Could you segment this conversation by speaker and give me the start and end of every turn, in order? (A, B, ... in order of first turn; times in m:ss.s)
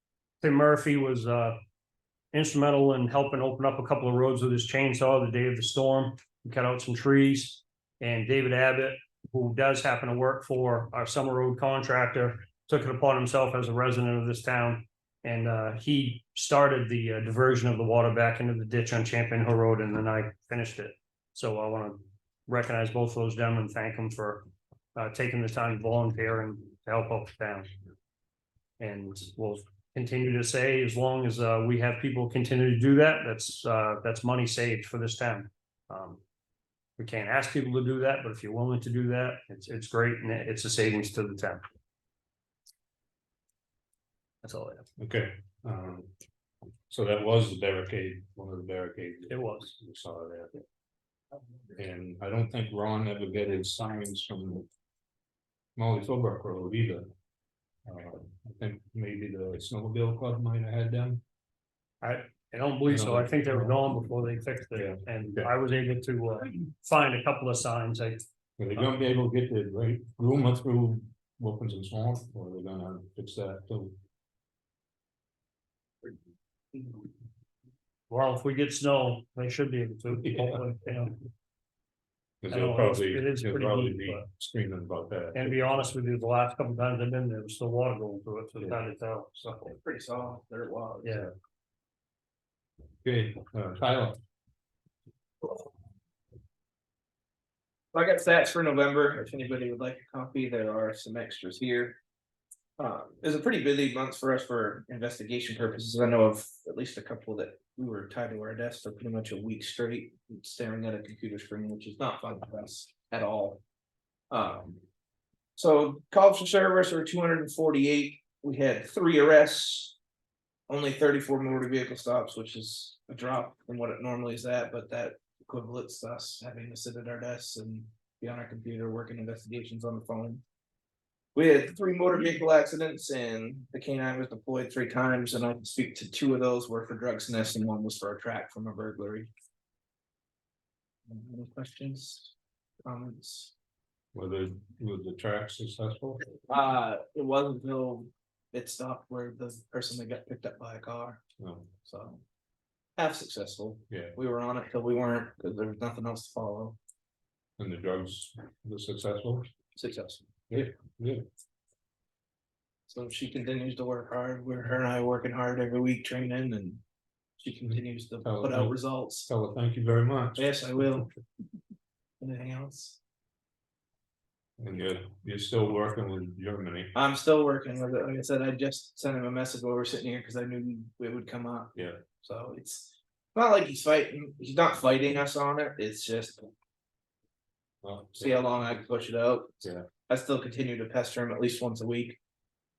0:00.4-0:01.6 A
0:02.3-0:27.7 A
0:28.8-0:36.2 A
0:37.0-0:41.6 A
0:44.4-0:44.9 A
0:45.0-0:46.1 B
0:46.9-0:50.6 B
0:49.3-0:49.7 A
0:51.8-0:54.7 B
0:55.8-0:57.1 B
0:57.9-1:01.2 B
1:02.0-1:08.2 A
1:02.9-1:03.8 B
1:04.8-1:05.5 B
1:08.6-1:14.0 B
1:18.1-1:21.2 A
1:20.1-1:20.7 B
1:22.4-1:25.6 B
1:22.5-1:24.3 A
1:25.3-1:29.3 A
1:28.6-1:28.8 B
1:29.4-1:29.6 B
1:29.5-1:31.3 C
1:31.0-1:31.3 A
1:33.0-1:34.2 B
1:37.9-1:42.0 C
1:42.8-1:53.6 C
1:54.3-1:54.8 C
1:55.6-2:00.0 C
2:00.7-2:10.4 C
2:11.4-2:19.3 C
2:21.1-2:22.3 C
2:22.8-2:23.5 C
2:24.1-2:26.3 B
2:26.5-2:31.2 C
2:31.4-2:31.7 B
2:31.8-2:32.2 C
2:33.0-2:36.8 C
2:33.9-2:34.2 B
2:37.6-2:39.5 B
2:39.8-2:40.7 C
2:40.5-2:41.2 B
2:42.9-2:46.8 C
2:47.4-2:49.3 C
2:47.7-2:51.0 B
2:50.4-2:51.1 C
2:52.2-2:53.0 C
2:54.6-2:56.9 B
2:57.0-3:06.5 C
3:01.8-3:02.0 B
3:07.8-3:08.8 B
3:08.2-3:12.2 C